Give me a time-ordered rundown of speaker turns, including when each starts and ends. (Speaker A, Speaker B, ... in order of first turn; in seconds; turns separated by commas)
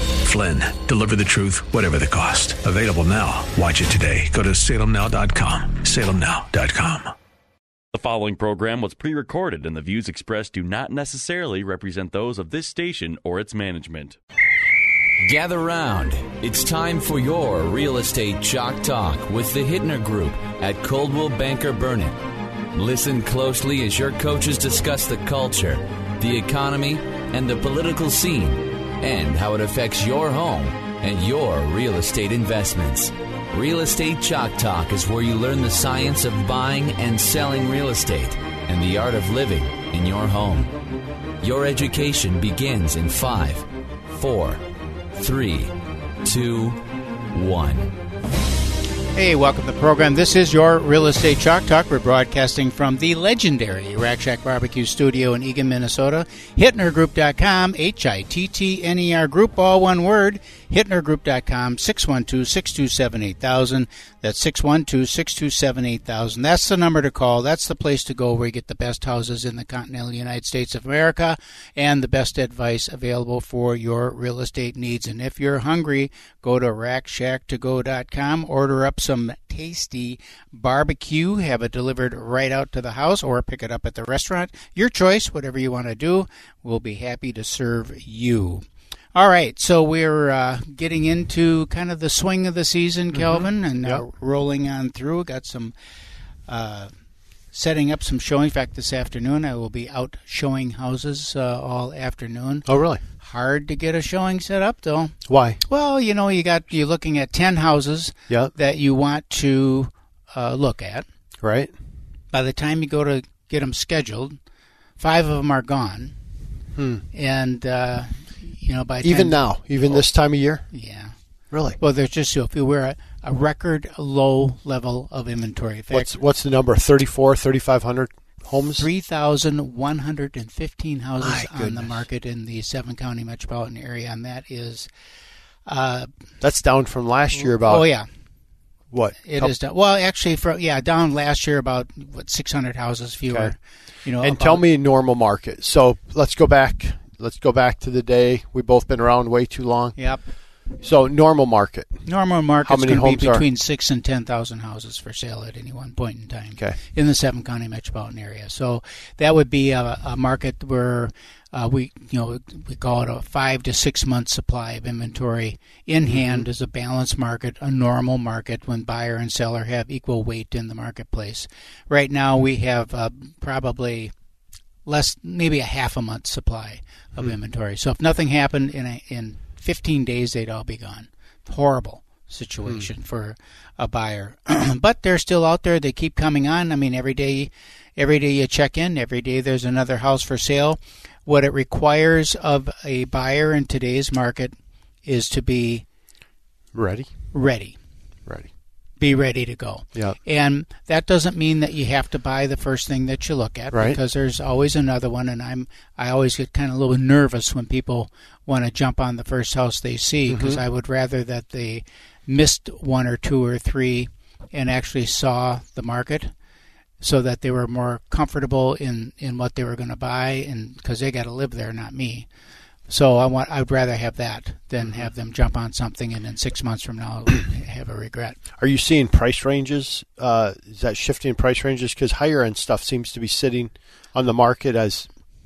Speaker A: 0.2-7.1, Speaker B: 7.9-14.2, Speaker C: 15.2-22.1, Speaker C: 22.7-40.7, Speaker C: 41.4-44.6, Speaker C: 45.1-45.7, Speaker C: 46.2-46.8, Speaker C: 47.3-47.9, Speaker D: 49.1-95.8, Speaker E: 93.1-94.0, Speaker D: 96.5-96.9, Speaker D: 97.5-111.0, Speaker E: 102.7-103.0, Speaker E: 105.3-105.6, Speaker E: 111.4-111.7, Speaker D: 112.3-114.4, Speaker D: 115.0-116.1, Speaker E: 116.8-117.0, Speaker D: 117.1-120.1, Speaker E: 119.0-120.7, Speaker D: 120.7-121.1, Speaker E: 121.5-121.8, Speaker D: 121.8-126.1, Speaker E: 125.9-128.9, Speaker D: 128.8-134.9, Speaker E: 131.2-132.1, Speaker D: 135.7-136.1, Speaker E: 136.4-137.9, Speaker D: 137.4-138.1, Speaker E: 138.9-139.6, Speaker D: 139.2-144.6, Speaker E: 144.2-150.0, Speaker D: 150.0-150.2, Speaker E: 150.8-152.0, Speaker D: 152.1-174.1, Speaker E: 152.6-153.4, Speaker E: 166.1-166.5, Speaker D: 174.8-194.5, Speaker D: 195.1-195.8, Speaker E: 196.7-197.1, Speaker D: 197.3-197.8, Speaker D: 199.0-216.3, Speaker E: 203.7-204.0, Speaker E: 210.3-210.6, Speaker D: 217.0-222.3, Speaker D: 222.9-228.4, Speaker E: 228.6-235.1